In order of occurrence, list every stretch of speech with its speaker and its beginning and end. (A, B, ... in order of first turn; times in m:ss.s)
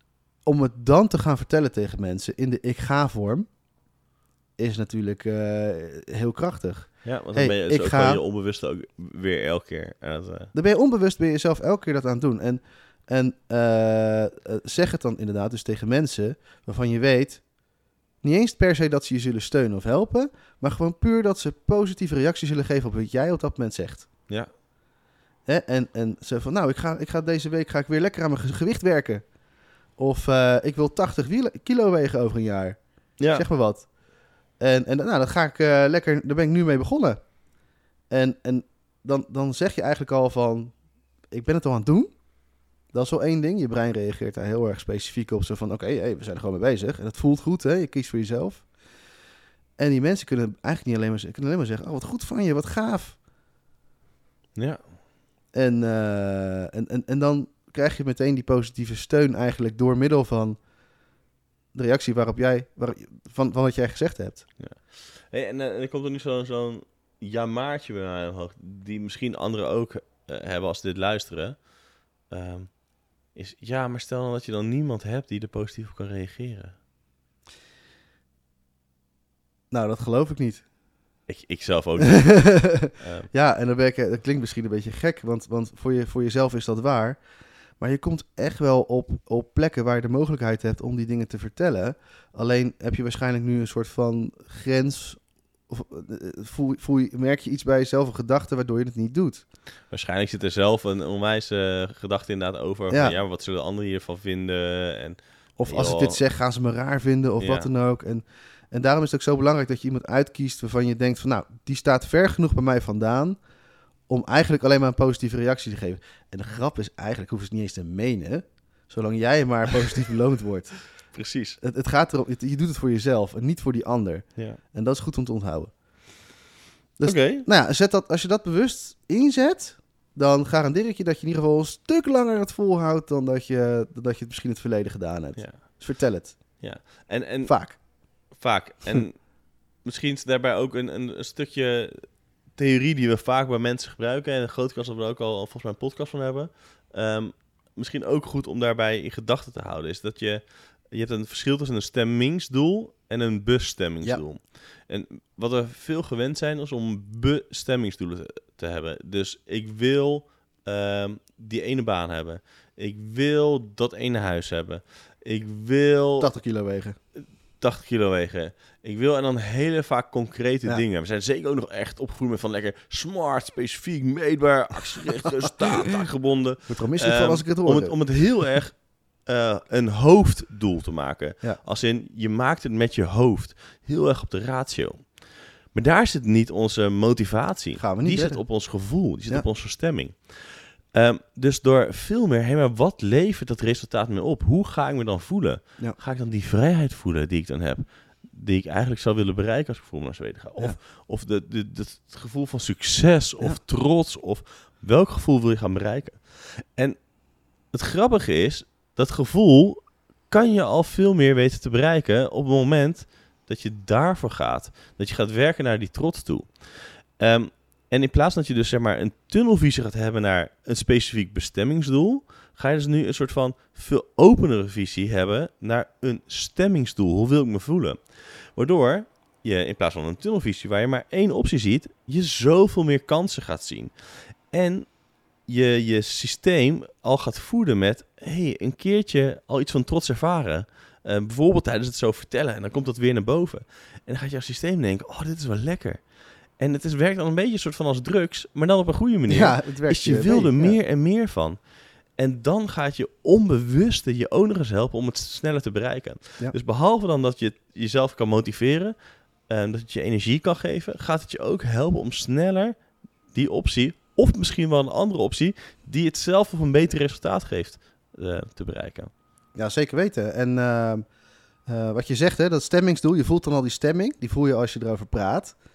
0:00.4-0:03.5 A
0:04.6-0:08.2 A
0:07.0-0:10.5 B
0:10.5-0:17.5 A
0:18.2-0:24.1 A
0:25.4-0:29.2 A
0:30.0-0:33.9 A
0:33.2-0:33.4 B
0:34.6-0:37.2 A
0:38.1-0:40.8 A
0:41.3-0:42.2 A
0:42.9-0:48.7 A
0:49.8-0:53.2 A
0:54.5-0:54.8 B
0:55.5-1:00.6 A
1:01.7-1:04.4 A
1:04.6-1:16.7 B
1:19.7-1:20.6 A
1:21.3-1:23.3 B
1:22.2-1:27.2 A
1:27.8-1:39.4 A
1:39.9-1:46.2 B
1:42.9-1:43.1 A
1:45.6-1:53.4 A
1:47.4-1:47.7 B
1:54.1-2:05.7 A
2:01.1-2:01.6 B
2:07.0-2:16.8 A
2:07.0-2:07.5 B
2:15.4-2:15.8 B
2:16.6-2:46.3 B
2:17.4-2:17.8 A
2:46.2-2:47.0 A
2:47.2-3:27.1 B
2:56.7-2:58.1 A
3:07.8-3:09.4 A
3:27.6-4:29.1 B
4:09.3-4:10.8 A
4:29.5-4:31.1 A
4:31.6-4:35.6 A